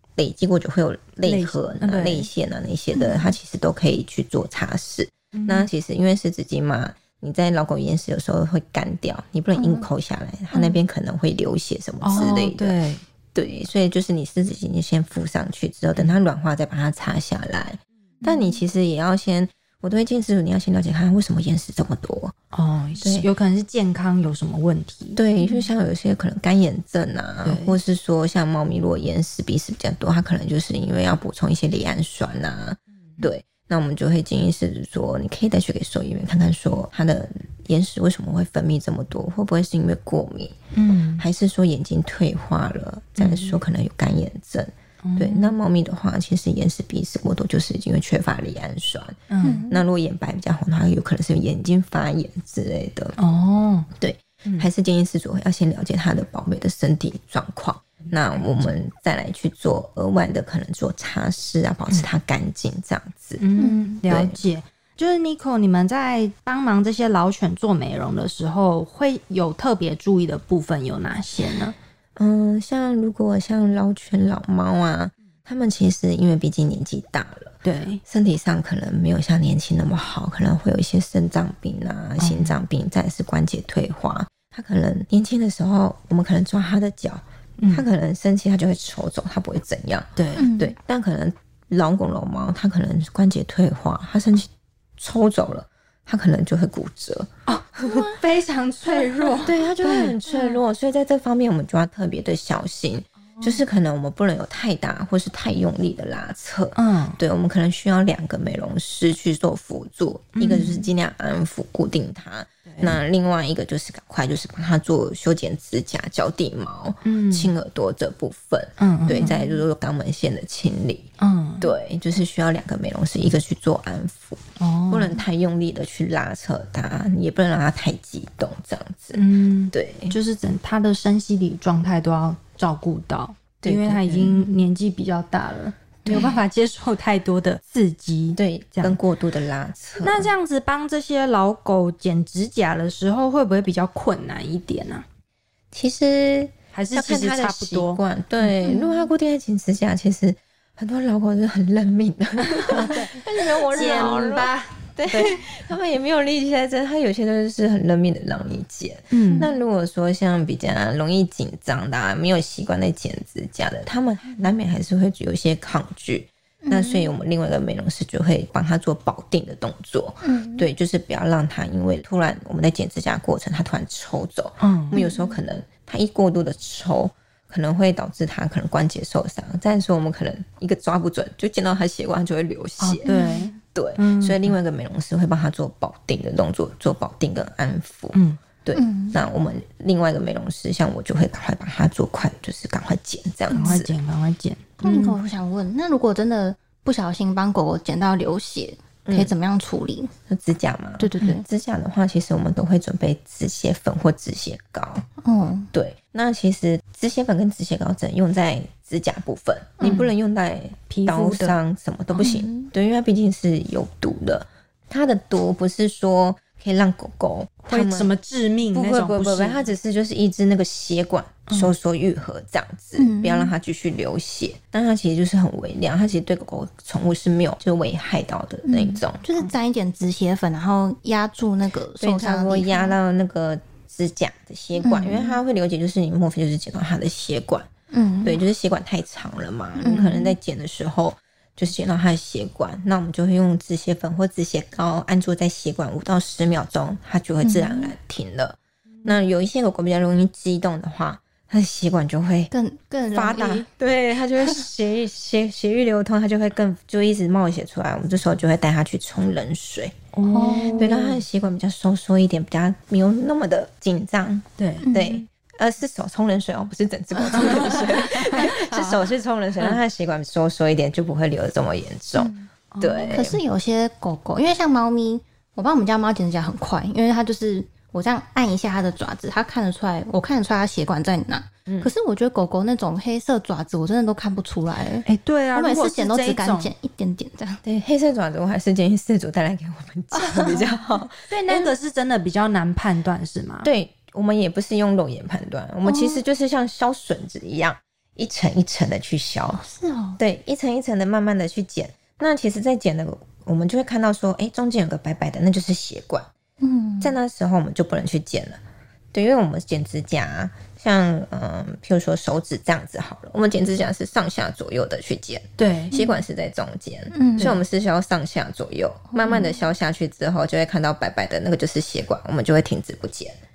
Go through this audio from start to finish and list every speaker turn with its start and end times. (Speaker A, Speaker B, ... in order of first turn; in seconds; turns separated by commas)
Speaker A: 0.2-12.8, Speaker B: 1.2-2.3, Speaker C: 2.9-3.3, Speaker B: 5.3-5.7, Speaker C: 9.6-9.9, Speaker B: 12.0-13.0, Speaker A: 13.3-22.4, Speaker C: 18.2-18.6, Speaker B: 22.5-25.2, Speaker A: 23.0-23.3, Speaker A: 25.1-40.6, Speaker B: 27.4-27.8, Speaker B: 40.7-41.2, Speaker A: 41.2-53.2, Speaker B: 43.2-43.6, Speaker B: 45.0-45.6, Speaker B: 49.3-49.7, Speaker C: 49.4-49.8, Speaker B: 53.2-53.9, Speaker A: 54.0-63.4, Speaker B: 58.2-58.7, Speaker B: 63.4-71.8, Speaker C: 63.6-64.0, Speaker A: 64.0-64.4, Speaker A: 72.2-98.1, Speaker B: 77.6-78.0, Speaker B: 82.2-82.6, Speaker B: 87.6-87.9, Speaker B: 90.2-90.5, Speaker C: 90.4-90.8, Speaker B: 97.5-100.2, Speaker A: 99.4-121.1, Speaker C: 100.3-100.6, Speaker B: 106.8-107.2, Speaker B: 110.3-110.9, Speaker B: 112.7-113.0, Speaker B: 117.0-117.5, Speaker B: 118.8-119.3, Speaker C: 119.2-119.6, Speaker B: 121.2-121.7, Speaker A: 121.6-130.2, Speaker B: 124.6-125.2, Speaker B: 129.1-139.0, Speaker A: 133.6-134.5, Speaker A: 136.0-136.4, Speaker A: 138.4-140.3, Speaker B: 140.0-145.1, Speaker A: 145.7-183.1, Speaker B: 146.7-148.8, Speaker C: 148.6-149.1, Speaker B: 152.6-155.4, Speaker C: 153.8-154.2, Speaker B: 159.1-159.5, Speaker C: 159.3-159.6, Speaker C: 166.6-167.1, Speaker C: 170.2-170.7, Speaker B: 174.6-175.0, Speaker C: 174.9-175.4, Speaker B: 182.8-184.6, Speaker C: 183.1-183.5, Speaker A: 183.7-193.9, Speaker B: 188.1-188.4, Speaker C: 188.8-189.2, Speaker B: 193.5-195.2, Speaker C: 193.5-193.8, Speaker C: 194.8-200.1, Speaker A: 199.1-199.3, Speaker A: 200.3-205.1, Speaker C: 201.0-201.5, Speaker C: 205.2-205.7, Speaker A: 205.7-218.1, Speaker C: 209.8-210.1, Speaker B: 210.9-211.6, Speaker C: 212.2-212.7, Speaker B: 217.7-219.7, Speaker A: 218.7-229.2, Speaker C: 223.0-223.5, Speaker C: 228.7-233.0, Speaker A: 232.0-237.7, Speaker C: 234.8-235.4, Speaker C: 237.9-238.4, Speaker A: 238.2-252.5, Speaker C: 239.8-240.4, Speaker C: 247.4-247.9, Speaker C: 252.5-253.7, Speaker A: 253.1-259.9, Speaker B: 260.1-261.2, Speaker C: 260.3-261.0, Speaker A: 260.8-273.4, Speaker B: 264.6-264.9, Speaker C: 264.8-265.2, Speaker B: 267.4-269.0, Speaker C: 272.2-272.5, Speaker B: 272.7-273.3, Speaker C: 273.1-287.6, Speaker B: 285.1-286.7, Speaker A: 287.6-291.7, Speaker C: 290.2-290.6, Speaker B: 291.2-293.7, Speaker A: 293.6-299.6, Speaker C: 295.9-296.2, Speaker C: 299.6-300.2, Speaker A: 300.2-306.3, Speaker C: 306.6-307.2, Speaker A: 307.0-308.6, Speaker A: 309.1-323.4, Speaker B: 315.6-315.9, Speaker C: 315.9-316.2, Speaker C: 317.1-317.6, Speaker C: 319.1-319.7